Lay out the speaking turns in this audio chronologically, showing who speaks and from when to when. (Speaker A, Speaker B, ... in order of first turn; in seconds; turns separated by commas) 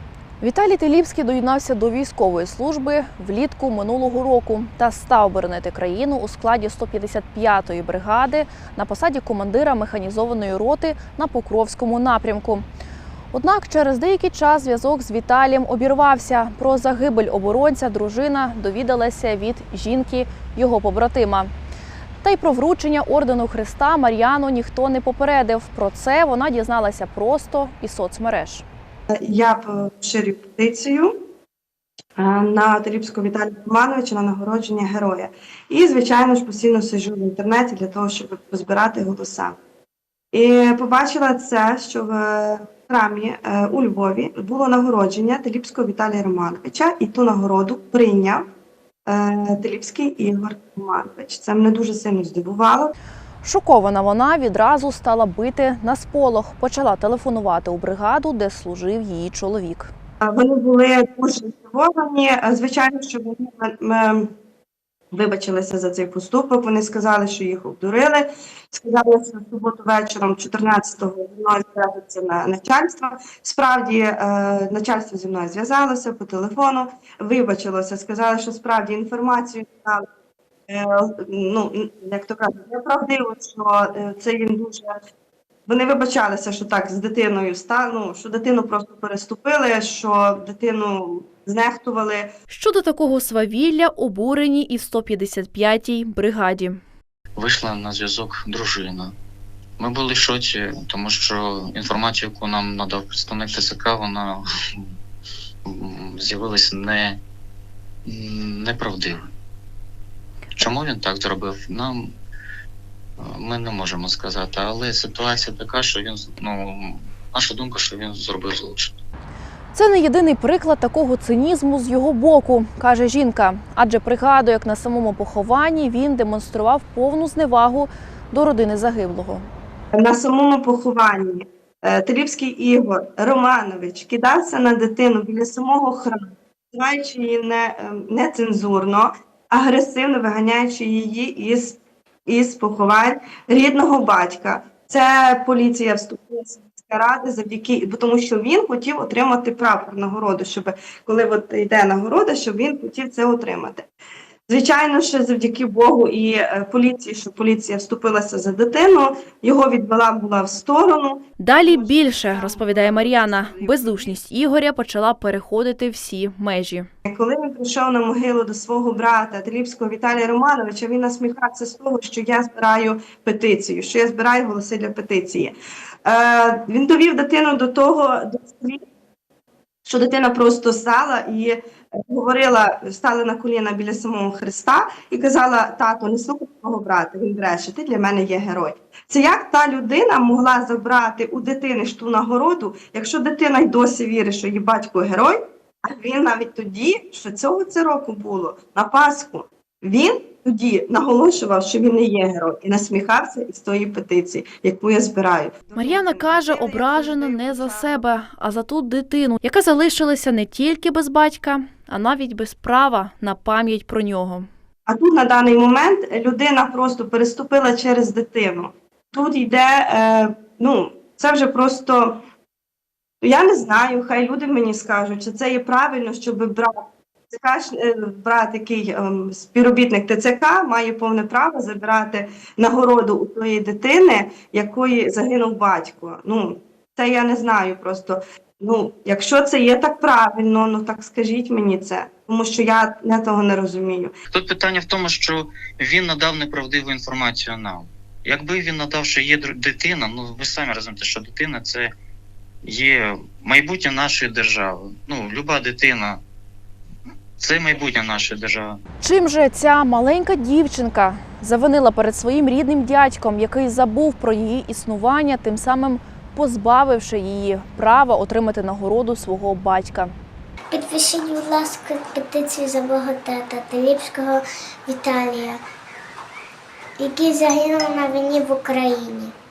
Speaker A: 0.4-12.6, Speaker A: 13.3-21.5, Speaker A: 22.2-28.6, Speaker B: 29.1-31.1, Speaker B: 32.2-39.6, Speaker B: 40.3-48.5, Speaker B: 49.1-52.9, Speaker A: 53.4-59.9, Speaker B: 60.2-64.3, Speaker B: 65.1-80.0, Speaker B: 80.7-85.0, Speaker B: 85.7-92.3, Speaker A: 92.5-96.8, Speaker C: 97.3-99.1, Speaker C: 99.8-104.9, Speaker C: 105.7-107.2, Speaker C: 108.0-109.2, Speaker C: 110.6-112.1, Speaker C: 113.2-119.0, Speaker A: 119.7-129.4, Speaker B: 129.9-153.8, Speaker B: 154.5-164.2, Speaker A: 161.4-166.9, Speaker B: 167.1-178.8, Speaker B: 179.8-208.1, Speaker A: 205.8-214.5, Speaker B: 214.9-222.2, Speaker B: 223.2-244.1, Speaker C: 244.3-251.9, Speaker C: 252.6-256.2, Speaker C: 257.4-258.8, Speaker A: 259.0-270.1, Speaker D: 270.7-275.6, Speaker D: 277.0-279.3